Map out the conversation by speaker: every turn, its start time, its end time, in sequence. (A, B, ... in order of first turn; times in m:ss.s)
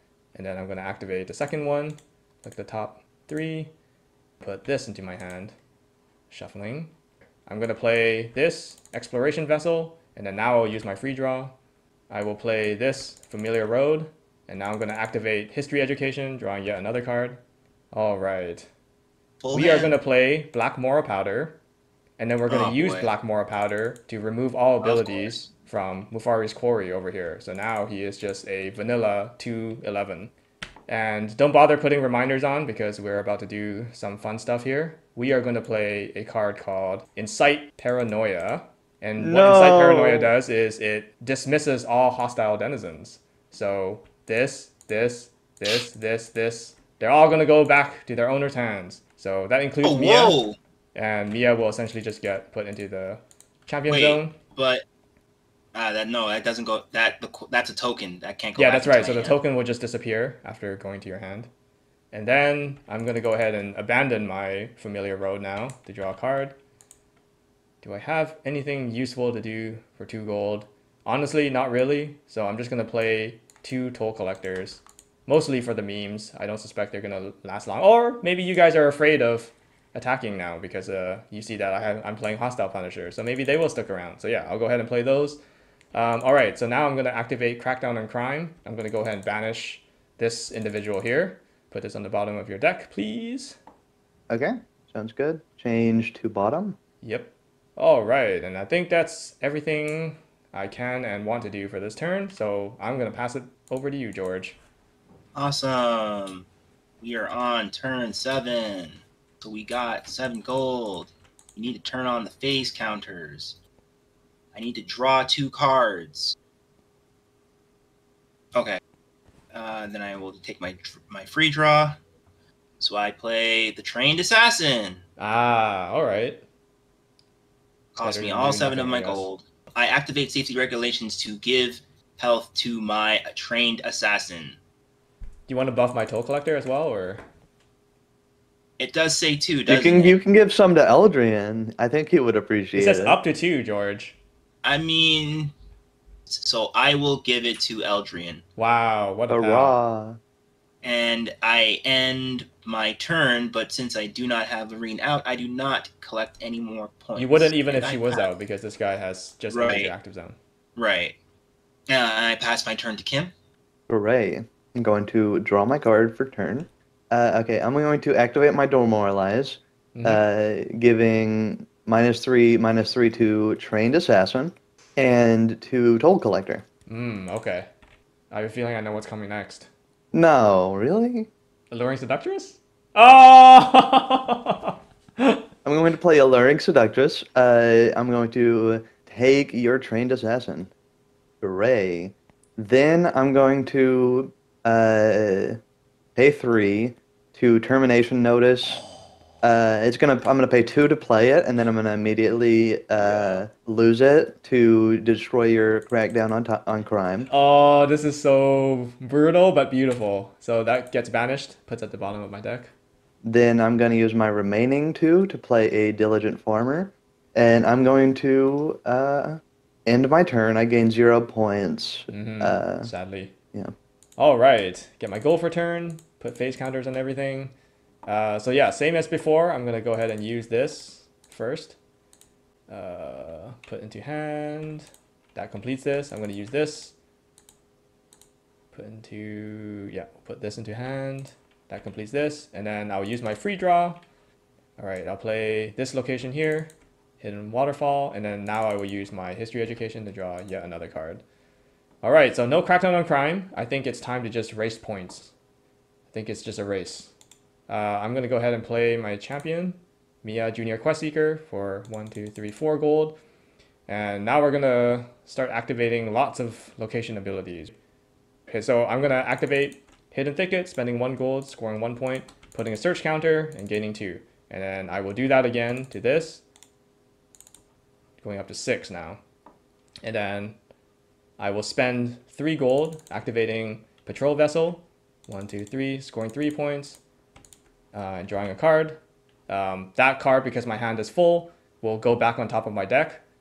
0:00.4-0:03.7 A
0:04.4-0:05.6 A
0:06.3-0:06.9 A
0:07.5-0:11.6 A
0:12.1-0:17.4 A
0:17.9-0:18.7 A
0:19.4-0:19.9 B
0:19.5-0:21.6 A
0:22.2-0:30.3 A
0:22.5-0:23.1 B
0:24.8-0:25.5 B
0:30.9-0:50.4 A
0:39.2-0:40.3 C
0:49.8-0:50.6 B
0:51.0-0:54.4 A
0:53.9-0:54.8 B
0:55.7-0:59.4 B
0:58.6-1:01.5 A
1:02.1-1:06.6 A
1:07.8-1:25.4 A
1:25.9-1:33.6 A
1:34.3-1:36.8 C
1:37.0-1:44.6 A
1:45.4-1:46.5 B
1:47.0-1:53.6 B
1:54.5-1:56.4 B
1:58.6-1:58.8 B
1:59.5-2:02.0 B
2:02.8-2:05.0 B
2:05.2-2:06.4 A
2:08.0-2:14.6 B
2:08.0-2:09.3 A
2:15.5-2:17.2 A
2:18.8-2:20.2 B
2:19.7-2:23.2 C
2:22.7-2:24.2 A
2:24.6-2:25.5 B
2:26.3-2:28.4 B
2:28.6-2:29.8 A
2:29.3-2:30.2 C
2:30.8-2:38.3 B
2:37.2-2:40.4 A
2:39.5-2:39.9 B
2:40.8-2:41.2 B
2:41.9-2:43.3 B
2:43.9-2:56.6 C
2:49.9-2:50.2 A
2:56.9-2:57.7 A
2:58.3-2:59.7 A
3:00.1-3:01.3 C
3:01.7-3:05.4 A
3:05.6-3:10.7 C
3:11.4-3:15.6 C
3:16.2-3:18.8 C
3:19.4-3:27.3 C
3:23.0-3:23.4 A
3:27.3-3:32.7 A
3:33.2-3:42.9 C
3:42.1-3:43.3 A
3:44.2-3:47.5 A
3:48.1-3:51.8 A
3:52.7-3:57.0 A
3:58.7-4:04.0 A
4:04.8-4:11.2 A
4:12.0-4:15.3 A
4:16.1-4:17.1 A
4:17.7-4:23.2 A
4:23.9-4:27.8 A
4:28.5-4:36.4 A
4:38.2-4:39.2 A
4:40.0-4:40.6 A
4:41.4-4:47.0 A
4:47.9-4:53.2 A